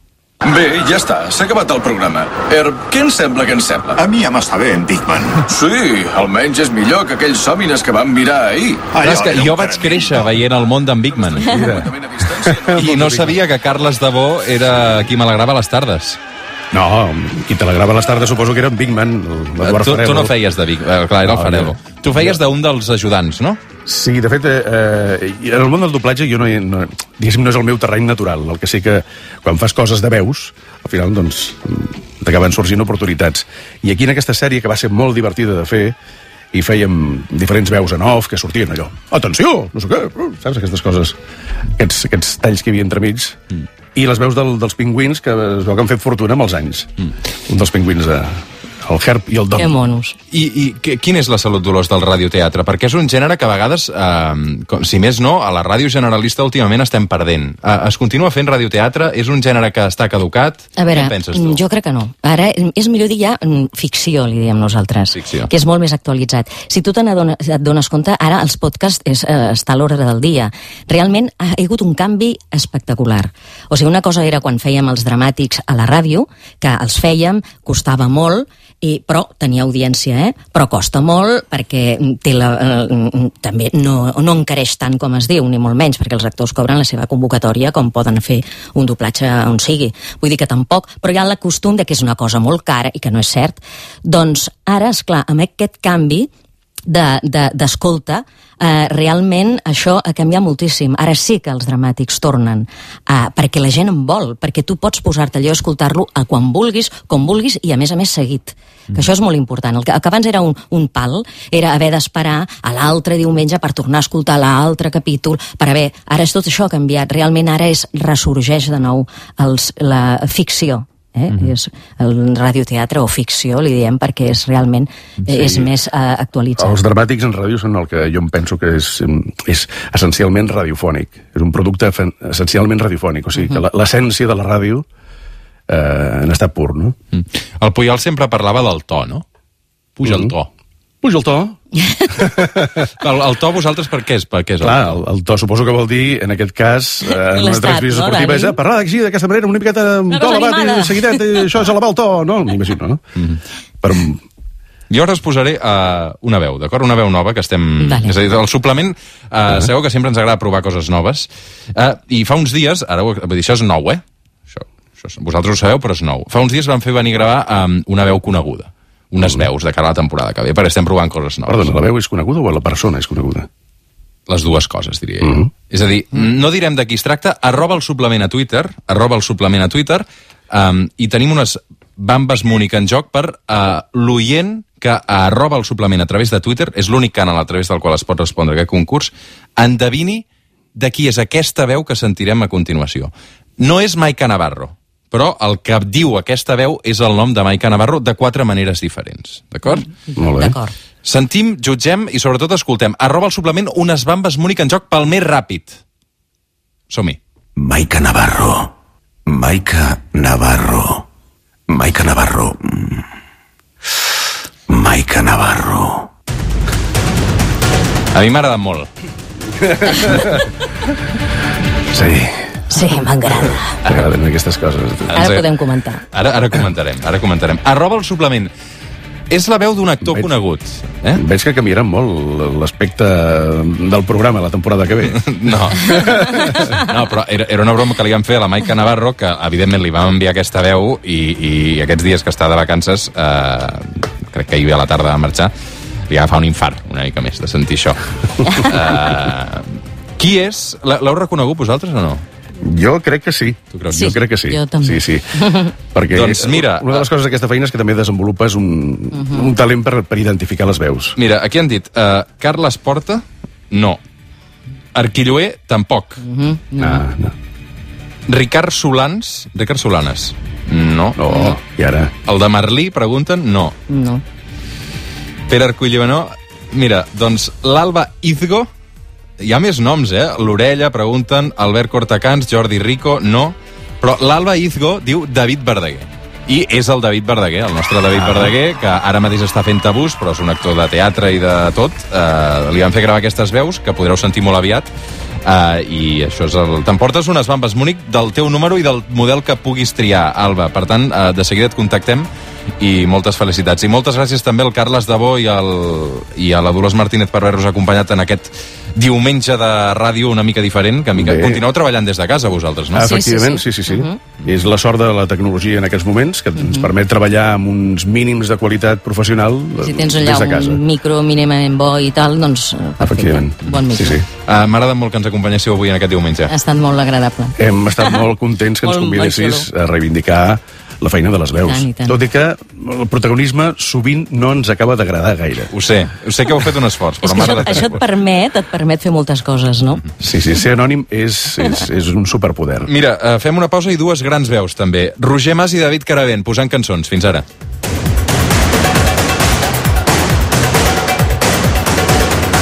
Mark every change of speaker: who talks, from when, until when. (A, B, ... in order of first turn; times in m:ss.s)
0:00.4-0:10.3 A
0:04.5-0:05.2 B
0:08.9-0:11.6 C
0:11.2-0:12.8 A
0:11.4-0:13.4 D
0:12.7-0:16.2 C
0:16.7-0:20.3 D
0:19.6-0:23.6 C
0:21.2-0:22.4 D
0:23.9-0:36.0 D
0:36.5-0:41.2 D
0:41.8-0:43.4 D
0:44.0-0:46.9 D
0:47.5-0:49.8 D
0:49.6-0:50.2 E
0:50.3-1:01.6 C
1:00.8-1:36.3 E
1:05.2-1:05.5 C
1:36.9-2:06.8 E
2:05.3-2:05.7 D
2:06.6-2:14.9 D
2:15.7-2:17.0 D
2:17.1-2:19.2 C
2:20.0-2:20.5 C
2:20.0-2:20.3 D
2:21.0-2:22.9 D
2:21.8-2:22.1 E
2:22.8-2:25.0 C
2:24.6-2:33.0 D
2:27.1-2:28.6 E
2:30.1-2:31.4 E
2:33.8-2:34.2 D
2:34.9-2:51.7 C
2:37.8-2:38.2 E
2:51.5-2:53.5 D
2:54.3-3:19.9 C
3:19.7-3:20.7 E
3:20.2-3:20.6 D
3:21.0-3:25.8 C
3:26.9-3:27.2 C
3:27.6-3:28.7 B
3:29.3-3:31.1 B
3:31.7-3:33.0 B
3:34.7-3:36.1 B
3:38.1-3:38.9 C
3:39.6-3:40.5 D
3:41.9-3:42.6 D
3:42.7-3:43.8 E
3:43.8-3:45.2 D
3:45.1-3:45.4 C
3:45.1-3:46.0 E
3:46.1-3:48.5 C
3:49.3-3:51.2 C
3:51.2-3:56.7 D
3:55.0-4:05.5 C
4:06.1-4:12.2 C
4:12.6-4:21.2 D
4:13.7-4:14.2 C
4:13.9-4:15.7 E
4:16.1-4:17.1 C
4:19.2-4:19.5 E
4:21.2-4:24.0 C
4:24.9-4:26.2 C
4:26.2-4:27.0 E
4:26.8-4:27.4 D
4:28.3-4:31.4 C
4:31.2-4:32.1 D
4:32.2-4:33.8 C
4:33.9-4:34.2 E
4:35.5-4:38.7 C
4:39.4-4:54.9 C
4:55.4-5:02.3 C
5:02.8-5:13.1 C
5:11.1-5:11.6 D
5:12.9-5:20.8 D
5:13.0-5:14.2 E
5:16.6-5:16.9 E
5:19.8-5:24.2 E
5:23.0-5:24.3 D
5:24.4-5:26.5 C
5:26.5-5:28.2 E
5:27.6-5:35.7 D
5:28.8-5:29.7 E
5:31.6-5:32.2 E
5:35.7-5:38.0 C
5:37.2-5:40.0 E
5:40.2-5:42.9 D
5:42.9-5:47.5 C